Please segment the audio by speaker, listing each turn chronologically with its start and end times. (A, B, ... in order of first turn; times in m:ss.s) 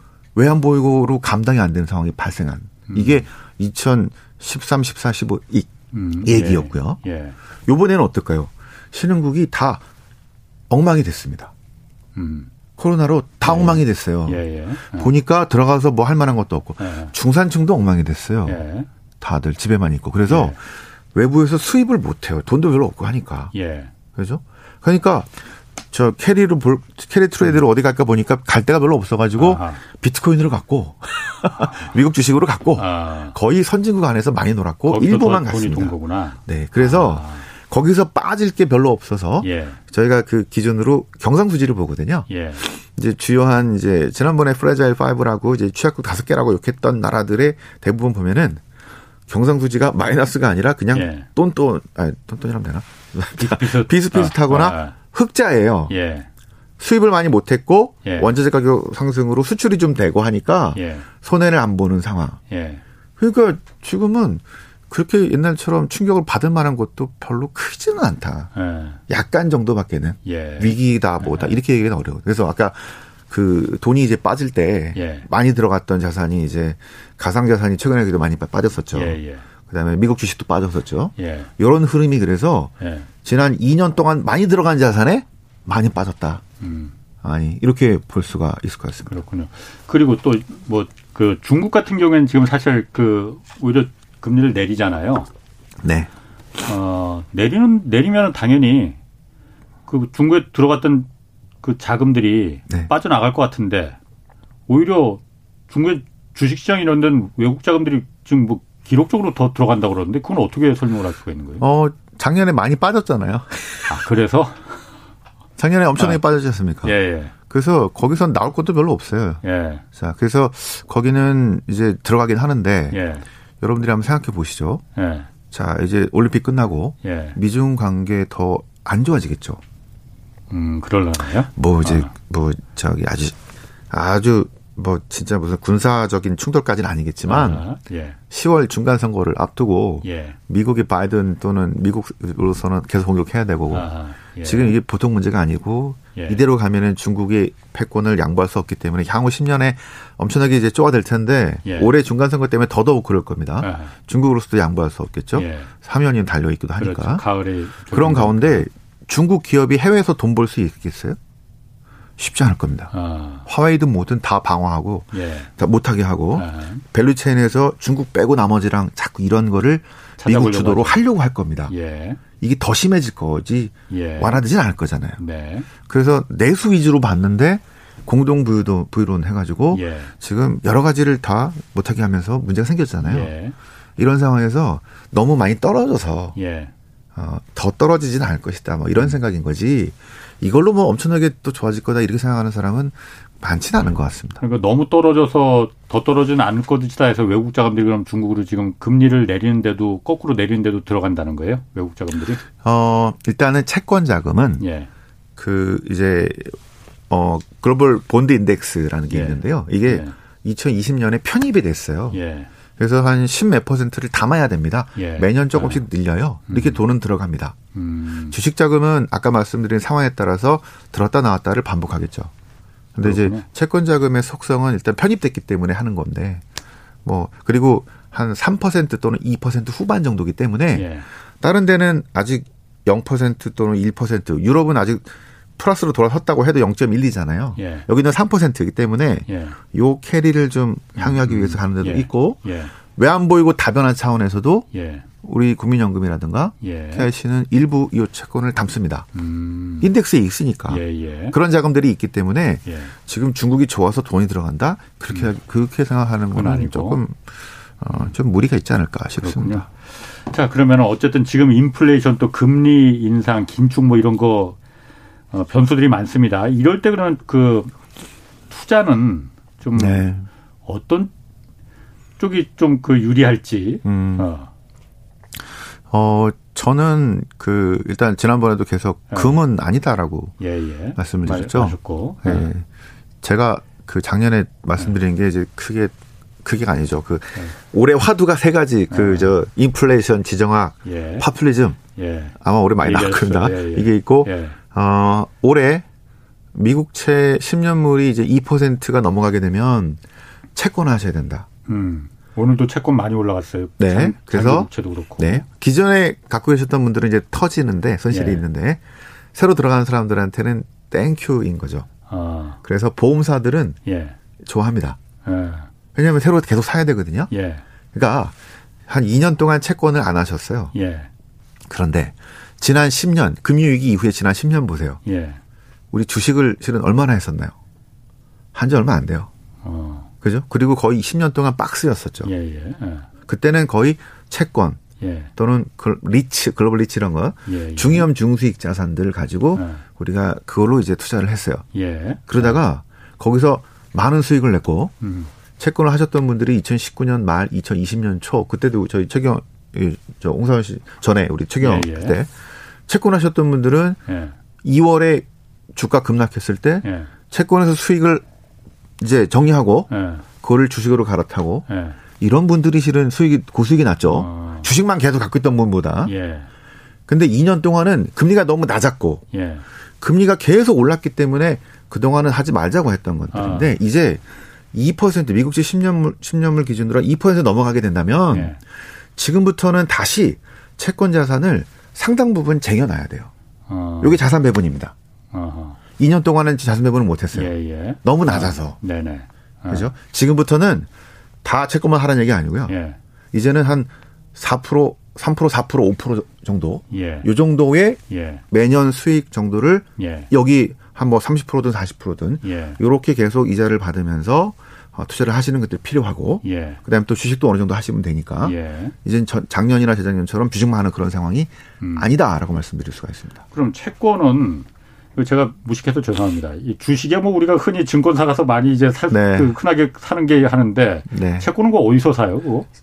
0:00.3-0:05.7 A
0:02.9-0:03.2 B
0:05.9-0:07.4 B
0:06.2-0:07.0 A
0:07.6-0:09.8 A
0:10.7-0:11.5 A
0:12.1-0:12.5 B
0:12.8-0:18.6 A
0:13.4-0:15.1 B
0:16.8-0:17.1 B
0:18.4-0:18.9 B
0:19.2-0:23.5 A
0:20.3-0:20.6 B
0:23.5-0:23.9 B
0:24.1-0:25.4 A
0:25.9-0:35.9 A
0:29.4-0:29.8 B
0:32.8-0:33.3 B
0:34.9-0:37.5 B
0:36.4-0:48.6 A
0:39.4-0:39.8 B
0:42.3-0:42.6 B
0:49.3-0:55.9 A
0:50.9-0:51.2 B
0:53.4-0:54.9 B
0:55.9-0:56.3 B
0:56.8-1:02.4 A
0:58.0-0:58.3 B
1:00.7-1:01.1 B
1:02.5-1:02.8 B
1:03.2-1:08.5 A
1:08.5-1:09.0 B
1:09.1-1:26.4 A
1:10.2-1:11.6 B
1:14.9-1:15.3 B
1:18.9-1:19.4 B
1:21.2-1:21.5 B
1:22.8-1:23.1 B
1:26.6-1:26.9 B
1:27.2-1:29.2 A
1:29.1-1:35.3 B
1:35.8-1:36.1 A
1:36.6-1:39.0 B
1:39.9-1:41.1 B
1:41.6-1:44.0 B
1:44.7-1:51.6 B
1:51.6-1:54.0 A
1:53.9-1:54.8 B
1:55.6-1:56.9 A
1:56.8-1:57.3 B
1:57.5-1:59.4 A
1:59.4-1:59.8 B
1:59.9-2:03.0 A
2:02.9-2:03.2 B
2:03.6-2:04.8 A
2:05.0-2:05.3 B
2:05.5-2:09.6 A
2:07.0-2:07.4 B
2:10.5-2:12.1 B
2:11.6-2:13.4 A
2:13.9-2:17.6 A
2:17.2-2:18.2 B
2:18.3-2:23.9 A
2:20.0-2:20.4 B
2:23.7-2:24.8 B
2:24.4-2:37.2 A
2:31.6-2:31.9 B
2:33.6-2:33.9 B
2:35.3-2:35.7 B
2:36.8-2:38.7 B
2:37.9-2:41.2 A
2:42.2-2:42.9 A
2:42.9-2:43.4 B
2:43.4-2:51.7 A
2:45.1-2:45.5 B
2:46.3-2:46.8 B
2:50.2-2:51.0 B
2:51.7-2:52.2 B
2:52.4-2:55.2 A
2:53.9-2:54.4 B
2:55.2-2:55.7 B
2:55.8-3:03.3 A
2:59.7-3:00.1 B
3:03.0-3:03.5 B
3:04.0-3:06.4 A
3:06.4-3:06.7 B
3:07.2-3:14.4 A
3:14.4-3:22.4 B
3:22.6-3:24.6 A
3:24.6-3:24.9 B
3:25.4-3:26.6 A
3:27.1-3:32.2 A
3:29.1-3:30.1 B
3:32.1-3:32.5 B
3:32.8-3:37.6 A
3:35.0-3:35.8 B
3:36.5-3:36.8 B
3:37.7-3:38.4 B
3:38.3-3:42.3 A
3:42.9-3:46.4 A
3:43.0-3:43.4 B
3:47.0-3:50.9 A
3:50.7-3:51.0 B
3:51.4-4:02.4 A
3:57.6-3:57.9 B
3:59.3-3:59.6 B
4:01.0-4:02.7 B
4:02.9-4:04.7 A
4:04.7-4:05.0 B
4:05.2-4:09.1 A
4:06.6-4:07.1 B
4:09.1-4:09.9 B
4:09.8-4:19.6 A
4:10.7-4:11.4 B
4:12.6-4:12.9 B
4:16.3-4:17.0 B
4:19.2-4:24.6 B
4:25.3-4:27.7 B
4:28.5-4:30.0 B
4:29.7-4:30.3 A
4:30.6-4:31.1 B
4:32.2-4:34.5 B
4:33.8-4:34.3 A
4:35.9-4:40.4 A
4:39.1-4:39.4 B
4:40.4-4:42.5 B
4:41.0-4:42.6 A
4:43.2-4:51.8 A
4:48.9-4:49.3 B
4:50.8-4:51.2 B
4:51.9-4:54.6 B
4:52.4-4:55.8 A
4:56.5-5:00.0 A
5:00.6-5:01.4 A
5:01.7-5:05.4 B
5:03.8-5:08.8 A
5:08.1-5:08.4 B
5:09.3-5:11.9 A
5:12.1-5:12.6 B
5:12.6-5:13.8 A
5:13.8-5:14.2 B
5:14.4-5:15.0 A
5:15.2-5:15.7 B
5:15.9-5:17.3 A
5:17.3-5:17.6 B
5:17.9-5:18.3 A
5:18.9-5:20.7 A
5:20.7-5:21.1 B
5:21.7-5:25.0 A
5:25.0-5:25.4 B
5:25.9-5:27.5 A
5:28.5-5:29.3 A
5:29.6-5:30.1 B
5:30.2-5:32.3 A
5:32.2-5:33.1 B
5:33.2-5:34.8 A
5:35.0-5:35.3 B
5:35.4-5:41.6 A
5:37.5-5:38.1 B
5:39.5-5:39.8 B
5:41.7-5:42.6 B
5:42.3-5:44.9 A
5:45.0-5:45.3 B
5:45.6-5:52.3 A
5:51.6-5:52.2 B
5:52.9-5:54.0 A
5:54.1-5:54.4 B
5:54.6-5:58.2 A
5:56.8-5:57.1 B
5:59.0-5:59.9 A
5:59.9-6:00.2 B
6:00.4-6:01.6 A
6:01.7-6:02.0 B
6:02.2-6:06.1 A
6:04.1-6:04.7 B
6:06.0-6:06.5 B
6:07.1-6:09.2 A
6:09.3-6:09.6 B
6:10.0-6:18.6 A
6:13.3-6:13.7 B
6:18.3-6:18.6 B
6:19.2-6:23.3 A
6:23.7-6:24.2 B
6:24.0-6:24.9 A
6:25.3-6:25.8 B
6:26.0-6:28.8 A
6:27.3-6:29.8 B
6:29.7-6:30.9 A
6:31.4-6:32.7 A
6:32.7-6:33.0 B
6:33.3-6:53.4 A
6:36.9-6:37.3 B
6:38.1-6:38.4 B
6:40.0-6:40.3 B
6:42.4-6:42.8 B
6:46.4-6:46.8 B
6:48.4-6:48.9 B
6:51.8-6:52.1 B
6:53.5-7:02.7 B
6:59.1-6:59.6 A
7:01.1-7:01.5 A